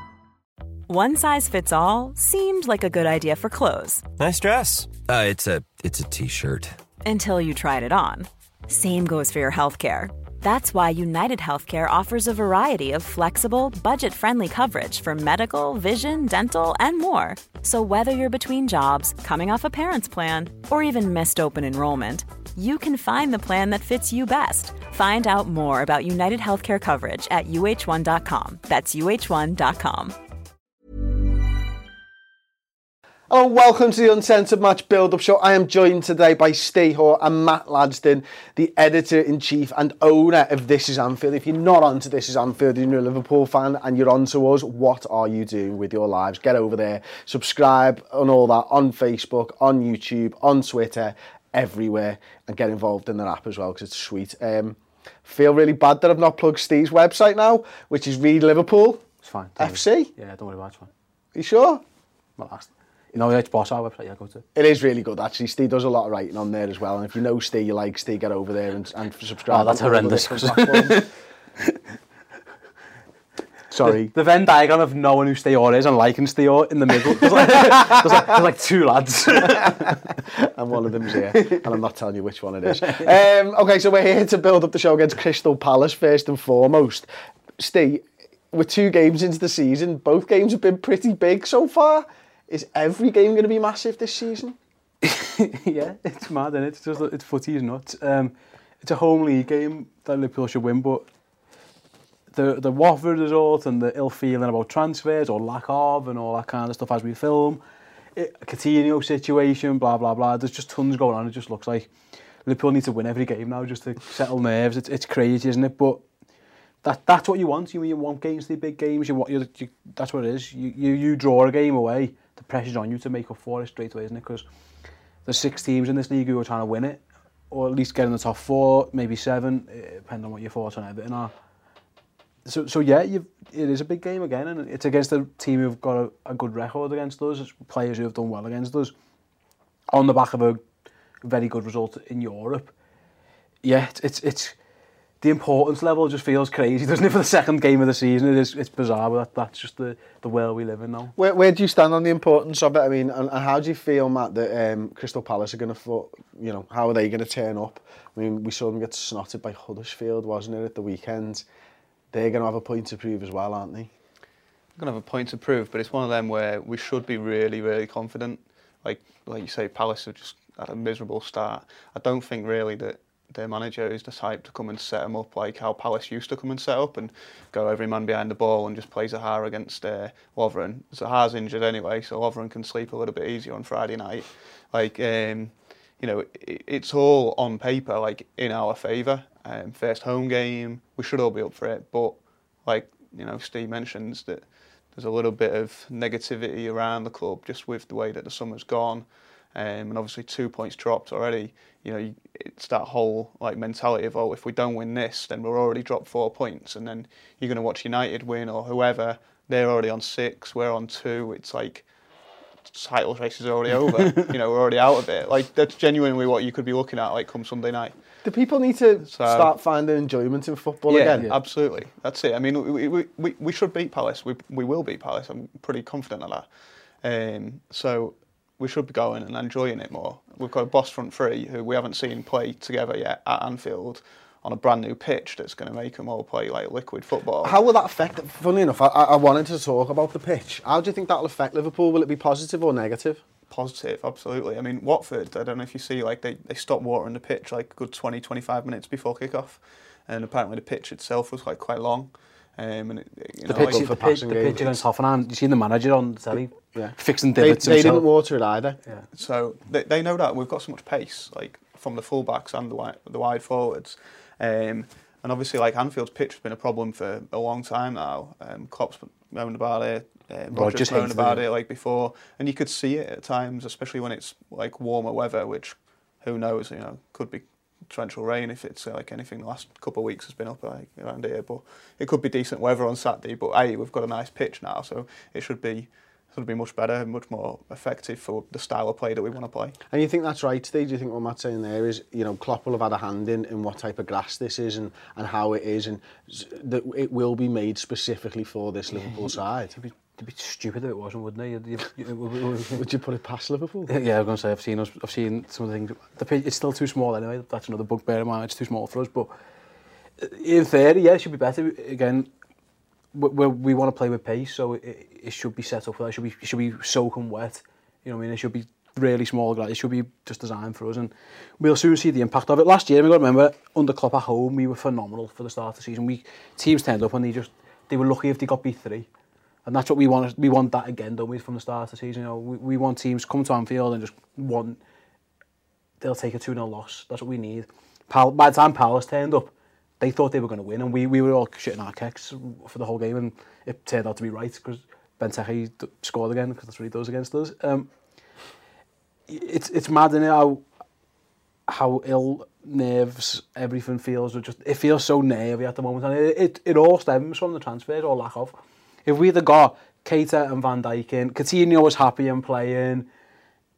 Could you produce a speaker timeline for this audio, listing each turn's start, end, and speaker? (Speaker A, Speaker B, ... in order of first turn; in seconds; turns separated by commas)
Speaker A: 0.9-4.0, Speaker B: 4.2-6.8, Speaker A: 7.0-30.1, Speaker C: 33.3-59.0, Speaker D: 59.2-60.9, Speaker C: 59.6-60.1, Speaker C: 61.3-61.8, Speaker D: 62.4-64.4, Speaker C: 64.5-71.0, Speaker D: 69.5-71.1, Speaker C: 73.7-74.1, Speaker D: 73.8-80.1, Speaker C: 77.2-78.3, Speaker C: 79.4-94.6, Speaker D: 81.4-81.6, Speaker D: 95.0-101.0, Speaker D: 102.3-107.6, Speaker D: 108.2-111.9, Speaker D: 112.4-116.0, Speaker D: 116.8-124.4, Speaker D: 125.2-131.3, Speaker D: 132.4-138.9, Speaker D: 139.9-140.6, Speaker D: 141.2-142.7, Speaker D: 143.6-144.5, Speaker D: 145.2-151.1, Speaker C: 151.2-161.4, Speaker C: 162.1-163.9, Speaker E: 164.8-211.9, Speaker E: 212.6-218.0, Speaker C: 218.2-221.3, Speaker E: 219.0-219.5, Speaker D: 220.9-221.3, Speaker E: 221.2-226.5, Speaker E: 227.0-237.6, Speaker C: 237.4-243.2, Speaker E: 243.5-253.9, Speaker D: 253.5-258.1, Speaker C: 253.5-254.8, Speaker C: 256.3-258.8, Speaker E: 259.1-289.8, Speaker D: 270.5-271.4, Speaker C: 289.9-299.8, Speaker D: 299.8-302.8, Speaker C: 302.7-303.9, Speaker D: 303.9-309.3, Speaker D: 310.2-312.3, Speaker D: 313.1-329.1, Speaker D: 329.6-334.8, Speaker D: 336.0-347.9, Speaker D: 349.3-350.6, Speaker D: 351.7-363.1